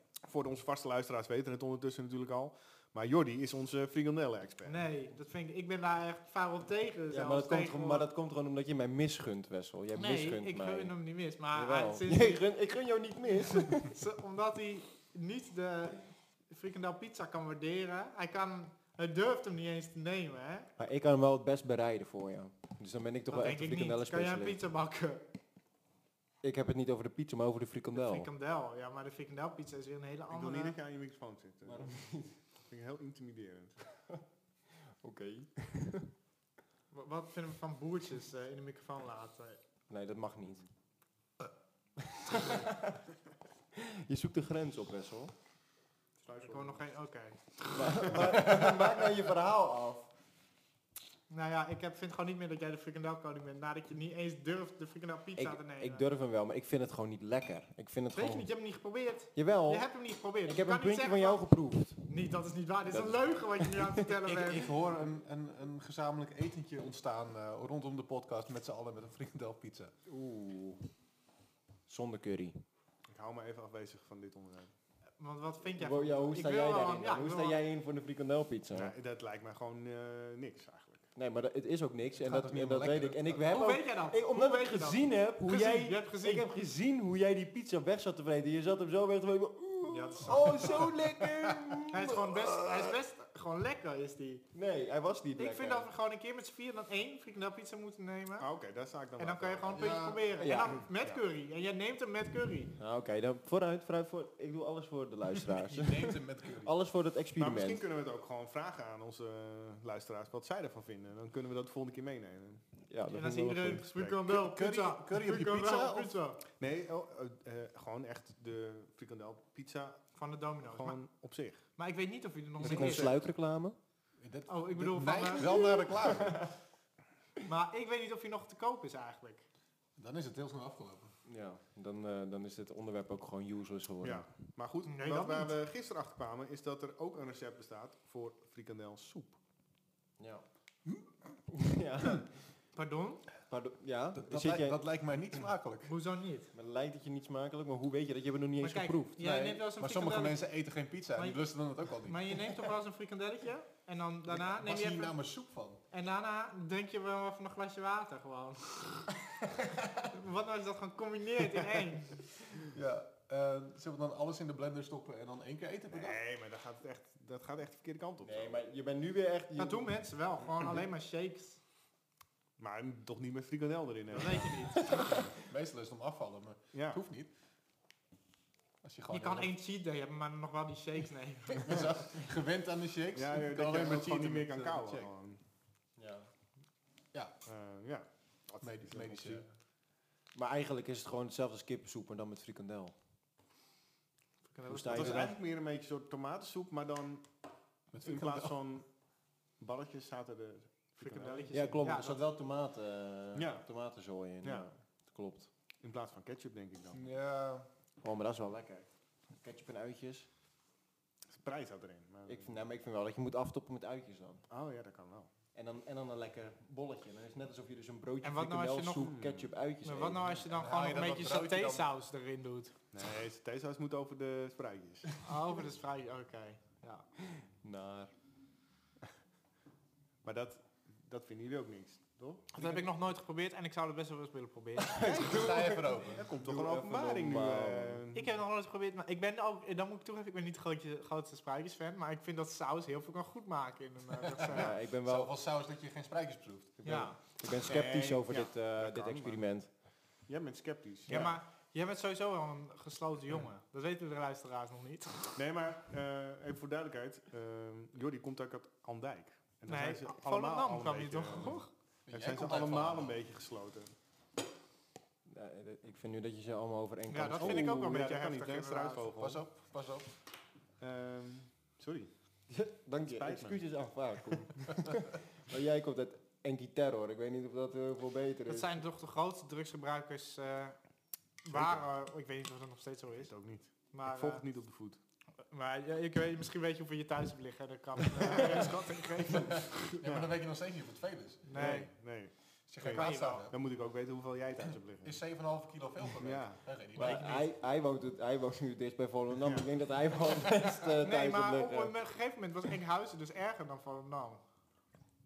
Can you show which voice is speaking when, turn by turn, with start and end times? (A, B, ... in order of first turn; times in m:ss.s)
0:00.2-0:04.9 A
0:04.6-0:08.1 B
0:07.1-0:10.9 C
0:09.9-0:12.4 B
0:11.5-0:13.9 C
0:13.6-0:20.7 B
0:20.8-0:24.6 C
0:23.3-0:25.2 B
0:26.4-0:28.3 C
0:27.9-0:30.8 B
0:30.3-0:31.9 A
0:31.6-0:32.3 C
0:32.7-0:33.8 A
0:34.8-0:36.1 C
0:36.9-0:39.6 B
0:39.9-0:40.6 C
0:42.0-0:43.0 C
0:43.7-0:45.3 C
0:46.2-0:46.8 A
0:46.4-0:47.8 B
0:47.7-0:50.1 C
0:51.3-0:56.0 B
0:55.4-0:58.5 C
0:58.1-1:01.4 B
0:59.3-0:59.9 C
1:00.4-1:02.0 C
1:02.0-1:04.7 B
1:02.9-1:04.1 C
1:04.2-1:09.9 D
1:10.1-1:10.9 C
1:11.9-1:12.6 C
1:13.1-1:14.7 A
1:15.2-1:17.6 B
1:15.7-1:18.9 C
1:18.7-1:21.1 A
1:21.2-1:32.9 C
1:22.2-1:23.4 D
1:23.5-1:26.5 B
1:29.9-1:30.9 B
1:30.4-1:31.7 D
1:31.9-1:34.4 B
1:34.5-1:35.9 C
1:35.4-1:38.5 B
1:38.4-1:39.9 A
1:39.2-1:42.7 B
1:39.7-1:40.3 D
1:40.4-1:40.8 C
1:42.8-1:47.8 C
1:45.5-1:46.7 D
1:47.4-1:52.6 A
1:52.8-1:53.9 C
1:53.1-1:56.4 B
1:53.9-1:54.2 A
1:54.3-1:56.1 D
1:56.6-2:00.1 A
2:00.1-2:01.0 B
2:00.6-2:01.6 A
2:01.8-2:03.2 B
2:02.6-2:03.8 C
2:02.6-2:03.1 A
2:04.2-2:06.5 D
2:04.5-2:05.5 B
2:05.4-2:06.5 C
2:07.4-2:09.4 B
2:10.0-2:11.1 D
2:11.2-2:14.2 C
2:14.0-2:19.4 A
2:14.9-2:15.5 B
2:20.2-2:20.4 C
2:21.5-2:22.3 C
2:22.7-2:23.2 B
2:23.5-2:24.8 C
2:24.1-2:25.9 D
2:25.8-2:26.5 B
2:26.5-2:29.2 C
2:28.6-2:30.4 B
2:29.2-2:32.6 D
2:31.2-2:31.4 B
2:32.0-2:35.2 B
2:34.3-2:35.8 D
2:35.9-2:39.2 B
2:40.0-2:42.2 B
2:42.5-2:46.2 D
2:45.9-2:48.6 A
2:48.2-2:50.0 C
2:49.6-2:51.6 B
2:52.6-2:54.7 A
2:54.1-2:55.2 B
2:55.3-2:57.3 D
2:56.7-2:57.0 A
2:58.8-2:59.5 D
2:59.1-3:01.8 B
3:01.5-3:05.1 D
3:03.1-3:05.4 A
3:06.0-3:06.3 C
3:07.4-3:09.4 A
3:08.6-3:09.5 D
3:10.3-3:12.9 C
3:14.5-3:15.3 B
3:14.7-3:15.4 C
3:14.9-3:17.3 A
3:17.9-3:18.5 D
3:18.0-3:18.8 A
3:19.6-3:21.6 A
3:21.0-3:22.2 B
3:21.5-3:25.5 C
3:23.3-3:23.6 A
3:24.4-3:24.7 A
3:25.8-3:27.0 A
3:26.9-3:27.7 D
3:28.0-3:30.3 C
3:31.3-3:32.5 A
3:32.3-3:34.4 C
3:34.5-3:35.3 A
3:35.5-3:40.4 C
3:38.2-3:39.1 B
3:39.0-3:39.5 A
3:39.8-3:42.7 B
3:40.5-3:41.9 D
3:42.9-3:45.1 A
3:45.2-3:47.0 B
3:47.2-3:48.1 C
3:50.2-3:52.5 A
3:52.5-3:55.3 B
3:54.9-3:58.0 C
3:55.1-3:56.3 D
3:56.1-3:58.3 A
3:58.1-4:04.7 B
4:04.2-4:06.8 D
4:04.5-4:05.3 C
4:06.8-4:09.7 C
4:06.8-4:07.1 B
4:07.6-4:09.4 A
4:10.3-4:11.3 A
4:11.1-4:15.4 B
4:15.4-4:23.9 A
4:19.7-4:21.7 B
4:22.1-4:23.2 D
4:25.2-4:27.8 C
4:27.1-4:29.0 B
4:27.4-4:29.4 A
4:29.2-4:30.1 D
4:30.8-4:32.1 A
4:32.5-4:38.8 C
4:33.1-4:33.6 A
4:38.5-4:40.8 B
4:41.4-4:43.3 B
4:41.5-4:41.8 A
4:43.2-4:45.0 A
4:43.9-4:44.4 B
4:45.5-4:49.6 B
4:48.1-4:50.3 A
4:49.2-4:51.7 D
4:51.4-4:51.9 B
4:51.5-4:55.2 A
4:52.7-4:53.5 D
4:52.9-4:53.4 B
4:55.0-4:57.4 D
4:56.2-4:56.6 A
4:56.9-5:01.9 C
5:01.0-5:04.4 B